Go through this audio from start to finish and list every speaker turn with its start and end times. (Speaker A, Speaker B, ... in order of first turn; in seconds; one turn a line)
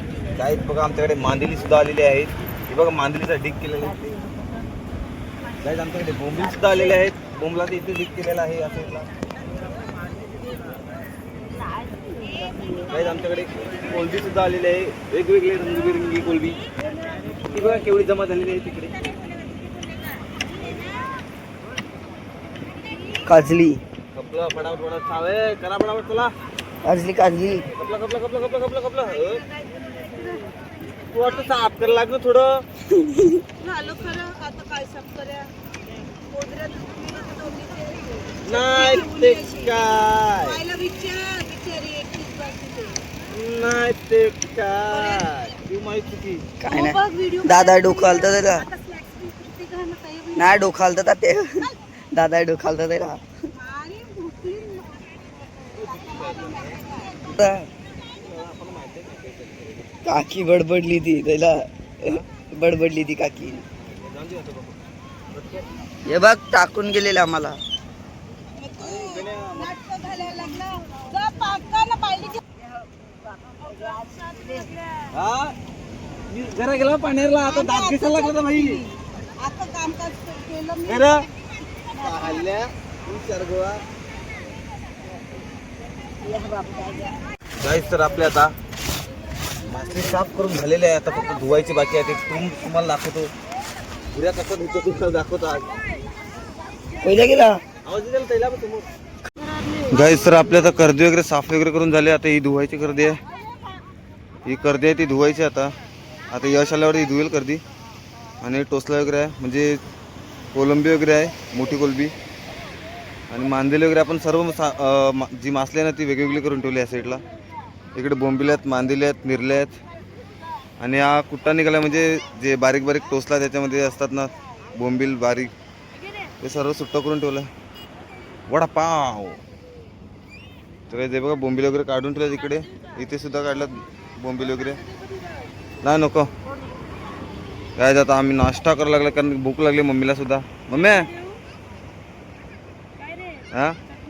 Speaker A: 0.3-4.1
Speaker A: 5.6-9.1
Speaker A: 12.9-16.6
Speaker A: 17.5-18.9
Speaker B: 23.2-23.8
Speaker A: 24.1-26.3
Speaker B: 26.8-27.6
Speaker A: 27.7-29.4
Speaker A: 31.1-32.6
Speaker B: 32.9-33.4
Speaker C: 33.6-35.5
Speaker C: 36.3-38.1
Speaker A: 38.4-40.6
Speaker C: 40.6-43.0
Speaker A: 43.3-46.5
Speaker B: 46.6-48.7
Speaker C: 46.7-50.4
Speaker B: 50.3-53.2
Speaker C: 53.6-55.0
Speaker A: 55.7-57.1
Speaker B: 57.3-57.7
Speaker A: 58.2-59.8
Speaker B: 60.0-63.6
Speaker A: 63.9-64.8
Speaker A: 65.3-65.7
Speaker B: 66.0-67.6
Speaker A: 68.8-69.8
Speaker C: 69.7-72.4
Speaker C: 73.6-74.7
Speaker A: 75.1-75.5
Speaker A: 76.3-78.9
Speaker C: 79.4-80.8
Speaker A: 80.8-81.3
Speaker A: 81.9-83.8
Speaker C: 86.3-87.1
Speaker A: 87.6-88.5
Speaker A: 89.6-93.3
Speaker A: 94.1-95.8
Speaker B: 97.0-97.6
Speaker A: 97.8-98.9
Speaker A: 99.9-103.2
Speaker A: 104.5-105.7
Speaker A: 106.3-107.6
Speaker A: 108.4-109.8
Speaker A: 110.5-112.1
Speaker A: 113.3-117.2
Speaker A: 118.0-119.8
Speaker A: 120.8-125.5
Speaker A: 126.4-127.5
Speaker A: 128.5-129.4
Speaker A: 130.9-134.8
Speaker A: 135.8-136.3
Speaker A: 137.8-141.1
Speaker A: 143.5-143.8